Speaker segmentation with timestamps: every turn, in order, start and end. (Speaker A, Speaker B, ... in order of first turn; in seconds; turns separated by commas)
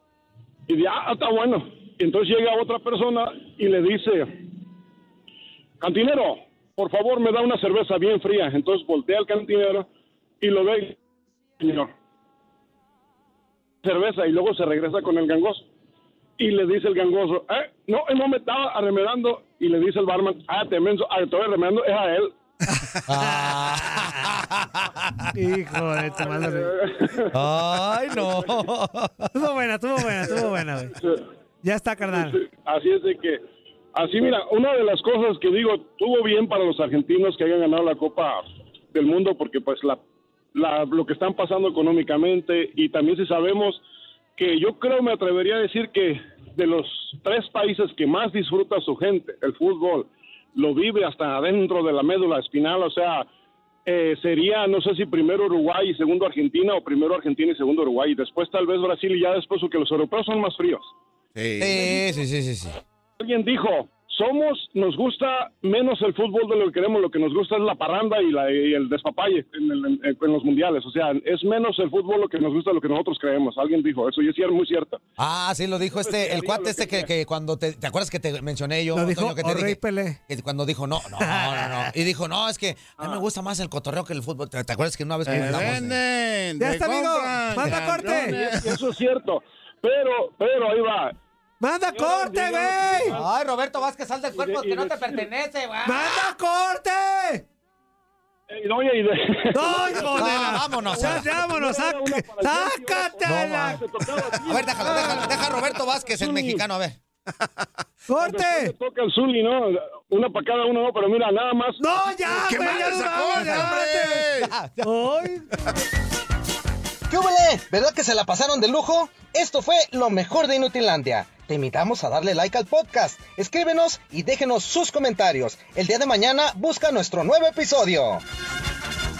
Speaker A: 0.7-4.3, Speaker A: 5.8-9.9, Speaker A: 10.4-11.0, Speaker A: 11.6-11.9, Speaker A: 13.8-15.6, Speaker A: 16.4-22.4, Speaker B: 22.7-24.3, Speaker C: 23.1-25.3, Speaker B: 25.3-26.9, Speaker A: 26.0-27.3, Speaker C: 27.3-29.3, Speaker A: 28.1-28.6, Speaker B: 29.3-30.9, Speaker A: 30.9-31.2, Speaker B: 31.6-32.4, Speaker A: 32.1-33.4, Speaker A: 33.9-40.0, Speaker A: 40.5-43.8, Speaker A: 44.4-53.3, Speaker A: 53.9-60.9, Speaker D: 61.3-62.0, Speaker C: 61.6-62.8, Speaker A: 63.2-75.0, Speaker C: 75.2-86.0, Speaker A: 75.9-77.1, Speaker B: 78.9-80.2, Speaker B: 81.2-81.9, Speaker D: 85.2-88.7, Speaker B: 86.6-88.4, Speaker A: 88.0-91.1, Speaker B: 91.6-93.2, Speaker A: 91.9-93.2, Speaker C: 93.0-96.3, Speaker A: 94.3-95.2, Speaker B: 95.8-97.5, Speaker A: 98.5-106.6, Speaker B: 99.5-103.8, Speaker C: 100.0-101.4, Speaker C: 103.2-107.0, Speaker B: 104.7-105.3, Speaker B: 108.1-108.7, Speaker A: 108.2-111.8, Speaker B: 111.8-114.3, Speaker D: 112.3-114.5, Speaker C: 114.4-114.9, Speaker B: 114.8-115.5, Speaker E: 117.1-128.2